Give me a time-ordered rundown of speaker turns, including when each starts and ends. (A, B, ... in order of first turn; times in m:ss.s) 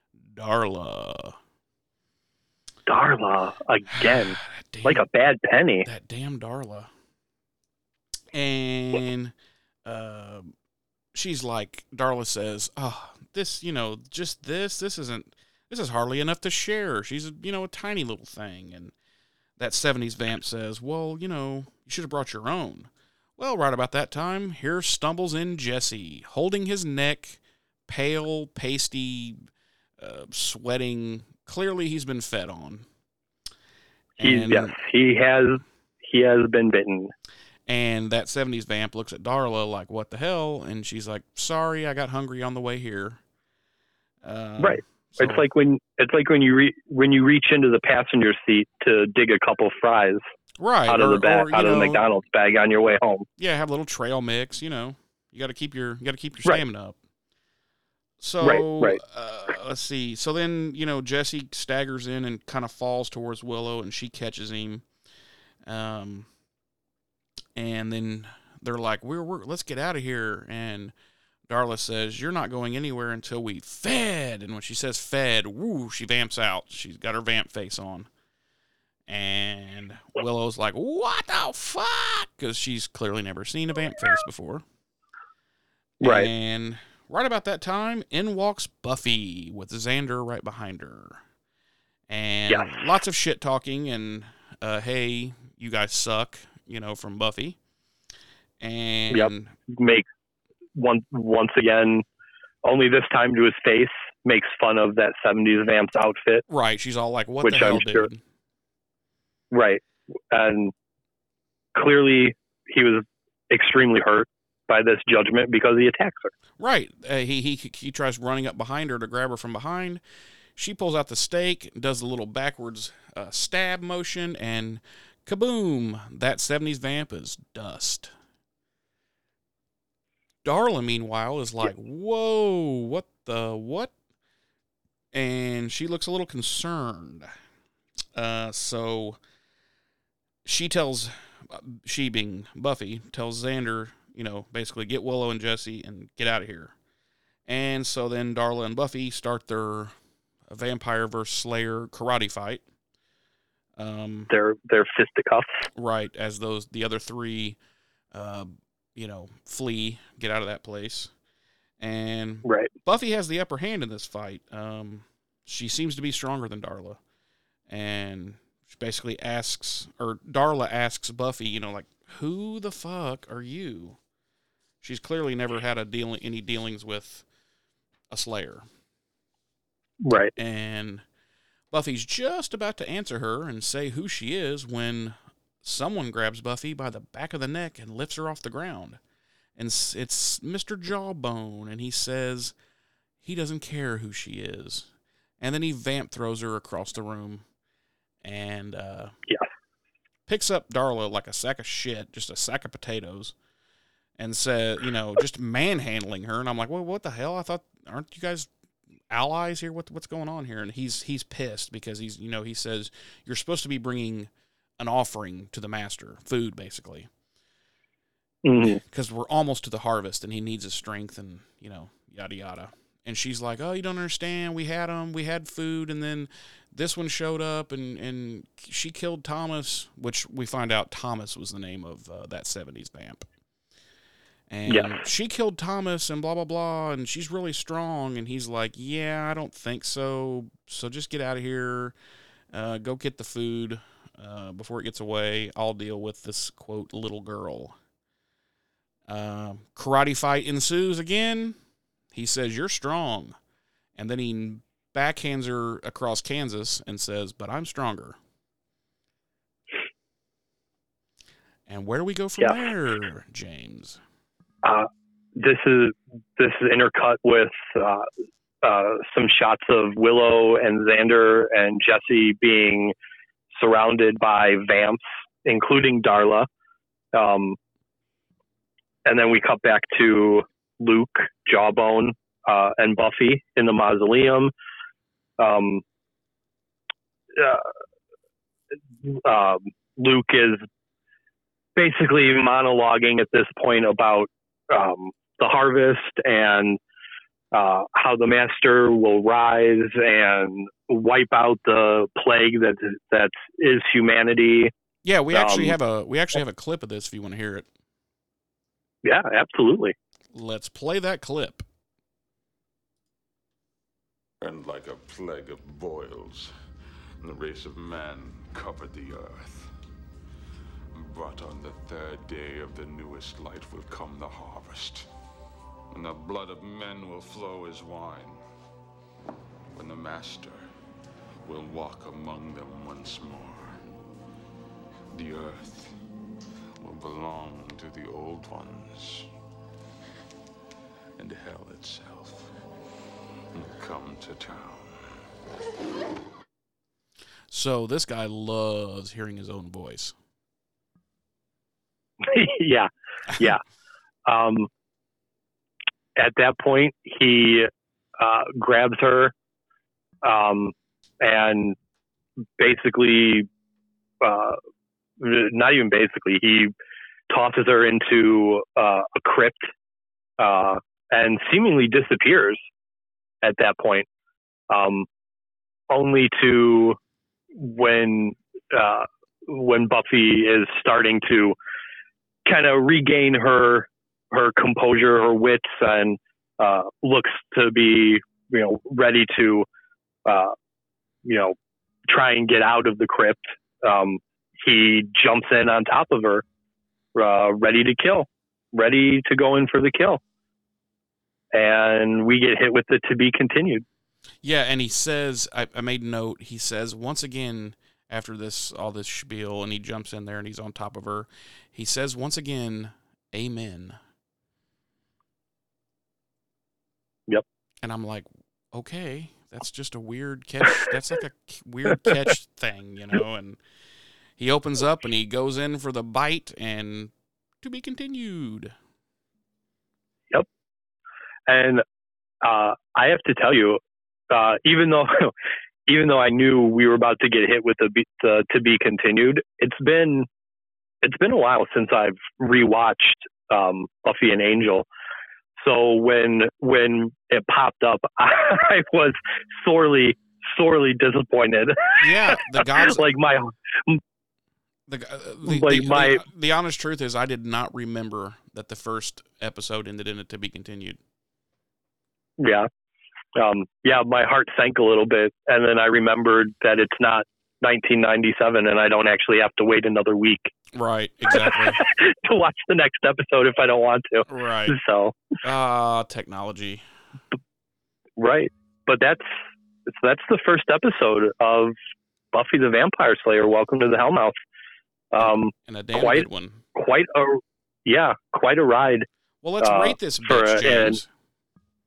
0:00.3-0:01.4 A
0:02.9-0:05.9 B
0:03.9-0:05.0 A
0:05.8-0:06.9 A
0:08.3-0:09.3 A
0:09.8-0:10.5 A
0:11.1-0:18.9 A
0:19.6-0:29.4 A
0:30.0-0:32.8 A
0:34.2-0:34.8 A
0:34.2-0:37.1 B
0:37.7-0:43.2 A
0:44.2-0:45.4 A
0:44.6-0:50.2 B
0:50.6-0:52.0 A
0:50.9-0:53.2 B
0:53.4-0:57.0 A
0:58.2-1:04.8 A
0:58.4-0:59.0 B
1:05.6-1:06.3 A
1:07.6-1:10.9 A
1:11.5-1:18.1 A
1:19.1-1:24.6 A
1:26.0-1:26.3 B
1:26.0-1:31.2 A
1:32.1-1:37.6 A
1:32.5-1:32.8 B
1:38.6-1:39.5 A
1:39.1-1:40.0 B
1:40.8-1:42.0 B
1:42.6-1:46.4 B
1:46.5-1:48.2 A
1:47.4-1:48.1 B
1:49.5-1:50.7 B
1:51.7-1:56.3 B
1:56.6-2:00.0 A
2:00.6-2:08.1 A
2:10.4-2:13.9 A
2:15.1-2:17.3 A
2:18.1-2:19.2 A
2:20.4-2:26.7 A
2:27.5-2:29.9 A
2:30.5-2:32.6 A
2:33.8-2:34.3 A
2:34.3-2:35.7 B
2:35.7-2:37.6 A
2:38.1-2:41.1 A
2:41.8-2:47.0 A
2:42.4-2:42.7 B
2:47.7-2:54.0 A
2:54.8-2:57.2 A
2:58.1-2:58.6 A
3:00.0-3:00.3 B
3:00.4-3:01.0 A
3:01.7-3:09.0 A
3:09.6-3:12.5 A
3:13.2-3:14.9 A
3:15.4-3:17.4 A
3:18.2-3:19.1 A
3:20.3-3:23.3 A
3:24.2-3:28.5 A
3:29.1-3:37.1 A
3:38.4-3:38.8 B
3:38.6-3:53.2 A
3:54.5-4:01.9 A
3:54.7-3:55.0 B
4:02.5-4:07.7 A
4:09.1-4:11.6 A
4:12.1-4:13.3 A
4:14.0-4:18.2 A
4:21.7-4:24.0 A
4:24.6-4:28.1 B
4:28.6-4:32.9 B
4:33.5-4:36.5 B
4:37.1-4:37.6 B
4:39.0-4:44.5 B
4:45.4-4:45.8 B
4:47.3-4:47.7 B
4:49.0-4:50.6 B
4:51.8-4:56.8 B
4:57.5-5:04.7 B
5:05.0-5:07.7 A
5:05.3-5:05.8 B
5:09.0-5:09.9 B
5:10.3-5:11.6 A
5:14.4-5:16.5 C
5:17.2-5:19.7 C
5:20.9-5:25.1 C
5:25.9-5:28.4 C
5:29.7-5:30.6 C
5:31.4-5:33.8 C
5:35.1-5:36.0 C
5:36.8-5:39.3 C
5:41.2-5:42.5 C
5:43.5-5:45.1 C
5:47.5-5:50.2 A
5:52.2-5:53.6 B
5:54.3-5:54.7 B
5:56.2-5:59.3 B
6:00.2-6:01.8 B
6:02.6-6:03.5 B
6:04.2-6:04.6 B
6:05.2-6:06.7 B
6:07.3-6:09.7 B
6:10.4-6:12.6 B
6:13.4-6:14.1 B
6:14.7-6:15.1 B
6:15.9-6:17.0 B
6:17.5-6:21.6 B
6:22.4-6:29.6 B
6:30.2-6:30.5 B
6:31.2-6:31.6 B
6:32.1-6:36.4 B
6:37.1-6:40.2 B
6:41.5-6:43.8 B
6:44.4-6:54.0 A
6:57.8-7:03.6 A
7:04.4-7:08.7 A
7:11.5-7:11.8 B
7:12.4-7:15.3 B
7:15.9-7:20.3 B
7:21.0-7:24.8 B
7:25.6-7:34.0 B
7:32.0-7:33.0 A
7:34.9-7:41.0 A
7:35.4-7:36.2 B
7:42.4-7:42.7 B
7:43.4-7:50.5 B
7:50.7-7:51.8 A
7:51.3-7:55.2 B
7:54.3-7:54.8 A
7:55.4-7:56.8 A
7:58.2-8:01.8 B
8:02.3-8:04.3 B
8:05.1-8:09.1 B
8:05.2-8:06.6 A
8:09.4-8:11.1 A
8:09.6-8:11.0 B